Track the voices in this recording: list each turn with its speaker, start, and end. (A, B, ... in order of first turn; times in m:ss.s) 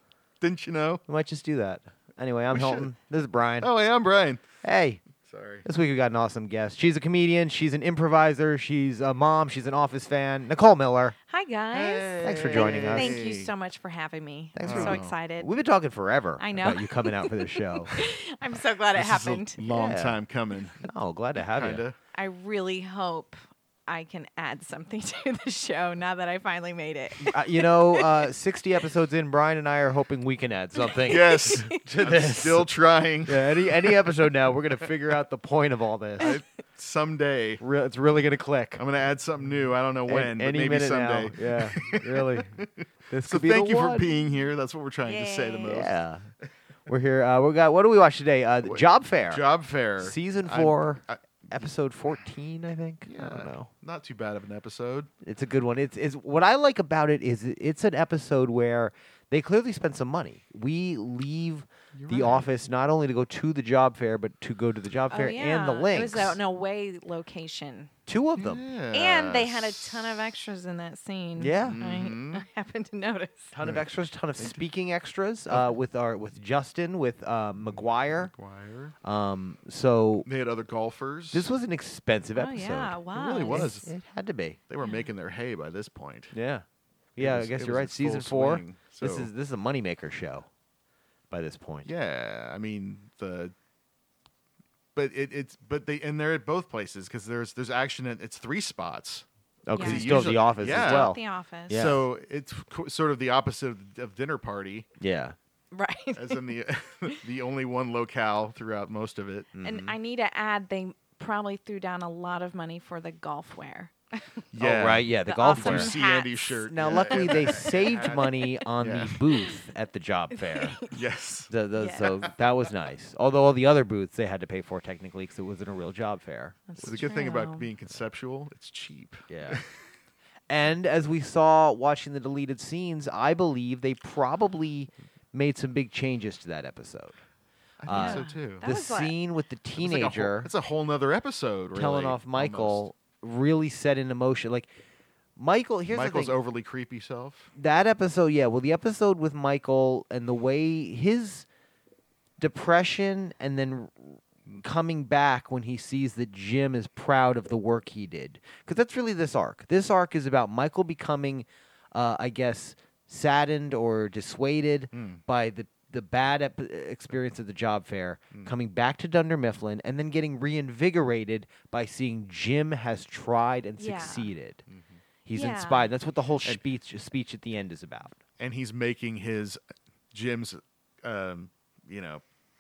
0:00.4-0:01.0 A
0:01.1-0:03.7 B
0:02.5-0:02.9 A
0:03.6-0:04.6 A
0:04.6-0:05.0 B
0:05.2-0:05.7 A
0:05.6-0:11.2 B
0:11.3-0:15.5 C
0:11.7-0:13.5 A
0:12.2-0:13.2 B
0:14.6-0:17.9 B
0:14.6-0:15.2 A
0:16.4-0:19.6 C
0:18.9-0:20.8 A
0:19.7-0:20.2 B
0:20.8-0:21.8 B
0:21.6-0:22.0 A
0:22.1-0:27.3 C
0:27.2-0:32.7 B
0:30.8-0:31.7 C
0:31.1-0:34.2 A
0:33.2-0:36.4 B
0:36.2-0:37.6 A
0:37.6-0:38.8 B
0:38.8-0:46.0 A
0:40.1-0:44.3 B
0:45.0-0:45.8 C
0:45.6-0:46.3 B
0:46.9-0:49.5 B
0:48.6-0:51.7 A
0:50.0-0:53.7 B
0:53.1-0:55.1 A
0:55.2-1:06.4 B
1:01.9-1:02.5 A
1:05.1-1:07.9 C
1:08.1-1:08.6 B
1:08.4-1:10.3 A
1:08.9-1:13.5 C
1:11.4-1:11.8 B
1:11.6-1:12.4 A
1:13.5-1:18.3 B
1:14.4-1:14.6 A
1:17.7-1:19.0 A
1:19.0-1:20.3 B
1:20.3-1:21.5 A
1:21.3-1:24.6 B
1:22.4-1:23.8 C
1:23.1-1:23.9 A
1:24.7-1:26.4 A
1:24.8-1:25.1 C
1:26.3-1:26.6 B
1:27.2-1:30.5 B
1:27.2-1:29.3 A
1:31.3-1:31.9 B
1:31.8-1:33.5 A
1:35.0-1:41.2 A
1:39.7-1:42.0 B
1:39.8-1:41.8 C
1:41.7-1:44.9 A
1:45.0-1:45.4 B
1:45.7-1:46.5 C
1:46.2-1:49.5 A
1:49.6-1:50.0 B
1:49.6-1:54.4 C
1:54.5-1:59.2 A
1:54.6-1:56.0 B
1:55.2-1:58.4 C
1:56.7-2:00.8 B
2:00.5-2:00.9 C
2:00.9-2:02.3 A
2:01.5-2:07.1 B
2:01.8-2:02.1 C
2:06.7-2:07.7 C
2:06.8-2:09.7 A
2:09.3-2:09.6 B
2:10.5-2:17.2 B
2:17.8-2:18.6 A
2:17.8-2:20.5 B
2:17.9-2:19.2 C
2:19.8-2:22.9 A
2:21.7-2:24.7 B
2:25.4-2:26.4 B
2:25.9-2:27.5 A
2:27.6-2:31.5 B
2:32.4-2:54.6 B
2:44.9-2:45.2 A
2:53.8-2:54.3 C
2:54.7-2:55.0 A
2:55.2-2:58.2 B
2:55.3-2:55.9 C
2:58.4-2:59.6 A
3:00.1-3:02.2 A